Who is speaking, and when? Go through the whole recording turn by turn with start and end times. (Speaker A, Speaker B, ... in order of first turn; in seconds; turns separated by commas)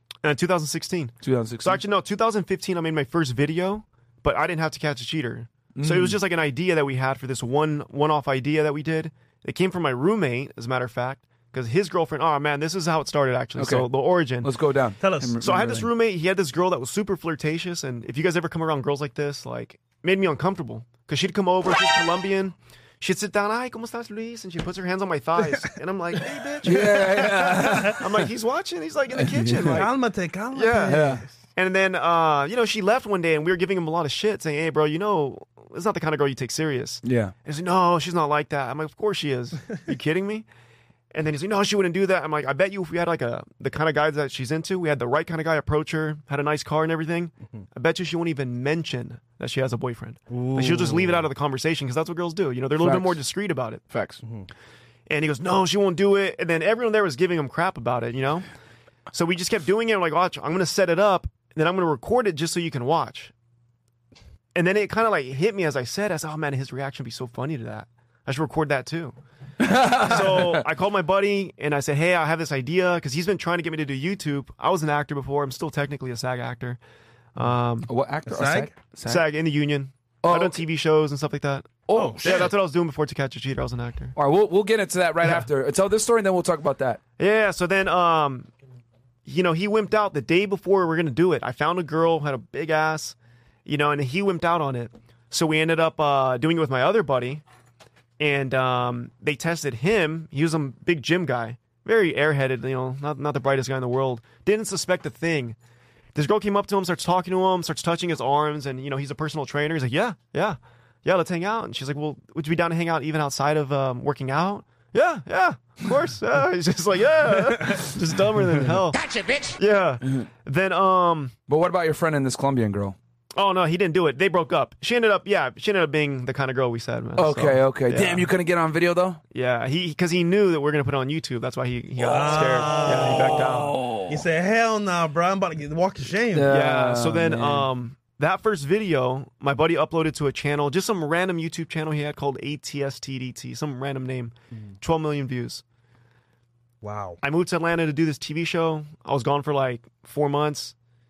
Speaker A: 0.2-14.5, Speaker B: 1.2-1.8, Speaker B: 5.8-6.2, Speaker B: 13.6-13.9, Speaker B: 14.4-15.9, Speaker C: 15.0-15.4, Speaker A: 15.4-29.9, Speaker B: 26.6-28.1, Speaker B: 29.1-29.9, Speaker C: 29.7-31.3, Speaker A: 30.5-31.0, Speaker B: 30.9-31.2, Speaker A: 31.6-40.5, Speaker B: 37.0-37.3, Speaker A: 41.1-53.8, Speaker C: 50.3-51.3, Speaker B: 52.8-53.2, Speaker B: 53.9-54.2, Speaker C: 54.2-54.5, Speaker A: 55.1-58.5, Speaker A: 59.1-63.3, Speaker A: 64.5-69.2, Speaker B: 69.6-70.6, Speaker A: 69.8-76.8, Speaker A: 77.3-77.9, Speaker B: 77.9-79.2, Speaker C: 78.3-78.7, Speaker A: 79.0-84.1, Speaker B: 80.2-80.6, Speaker B: 81.9-82.5, Speaker C: 81.9-82.4, Speaker B: 84.2-87.0, Speaker A: 87.2-88.5, Speaker A: 89.3-97.4, Speaker A: 98.2-105.6, Speaker A: 106.2-121.3, Speaker B: 118.9-120.3, Speaker B: 121.5-123.0, Speaker A: 123.3-128.3, Speaker B: 127.2-129.2, Speaker A: 129.3-133.8, Speaker C: 132.0-133.5, Speaker B: 132.1-134.2, Speaker C: 134.1-136.5, Speaker B: 136.3-137.7, Speaker A: 136.4-145.6, Speaker C: 146.8-147.2, Speaker A: 147.2-150.8